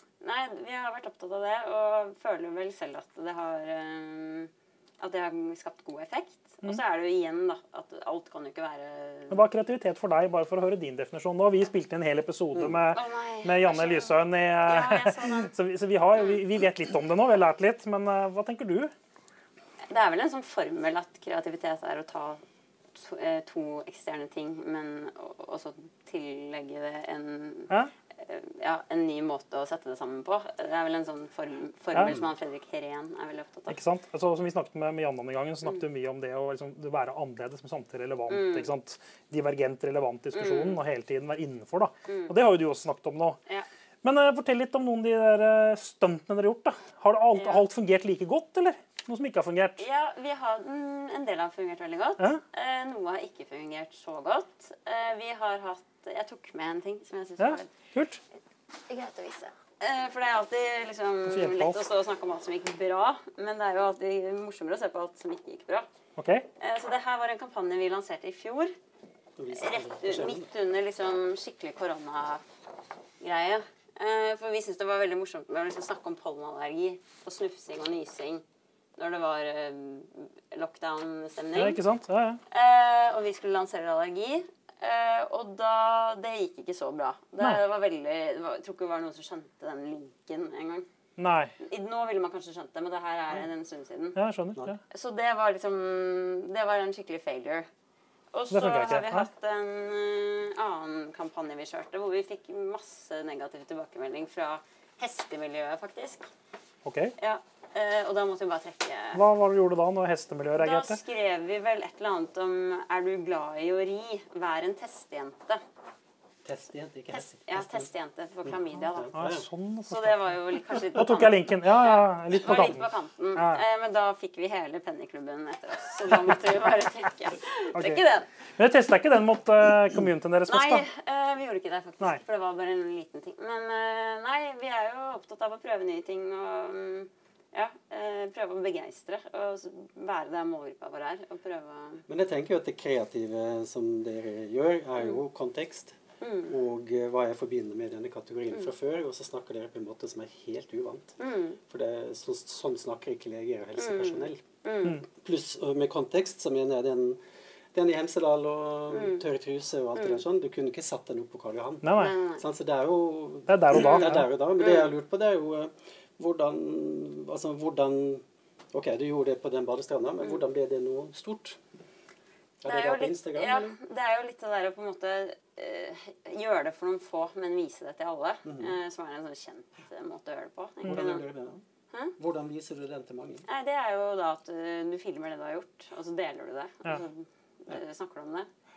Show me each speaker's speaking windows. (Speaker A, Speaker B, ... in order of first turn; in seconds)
Speaker A: 0.2-9.4, 12.9-15.5, 19.9-22.4, 22.9-33.8, 38.3-38.7, 40.3-40.8, 42.1-42.3, 47.3-47.6, 49.8-57.7, 58.9-65.9, 66.6-68.7, 69.5-72.5, 73.2-78.4, 79.0-81.8, 82.5-90.9, 91.6-94.2, 94.9-97.7, 98.3-106.3, 107.2-109.2, 110.6-115.6, 117.1-119.2, 119.9-128.3, 130.5-142.1, 146.2-146.5, 151.2-151.6, 153.8-155.0, 158.9-159.2, 161.9-162.4, 164.6-164.9, 172.7-181.2, 183.5-188.5
Speaker B: 9.3-18.9, 31.9-32.2, 33.7-43.4, 44.0-49.8, 57.4-58.2, 61.3-61.8, 66.2-66.5, 81.5-82.4, 91.2-91.5, 94.2-94.8, 98.5-99.3, 106.8-107.2, 109.1-111.0, 119.1-123.6, 127.8-128.0, 128.6-130.9, 161.8-162.2, 163.5-164.3
Speaker C: 69.4-70.5, 116.4-117.9, 118.5-119.5, 142.1-154.4, 155.0-171.6, 172.6-173.7, 178.4-178.8, 180.9-181.6, 182.2-183.5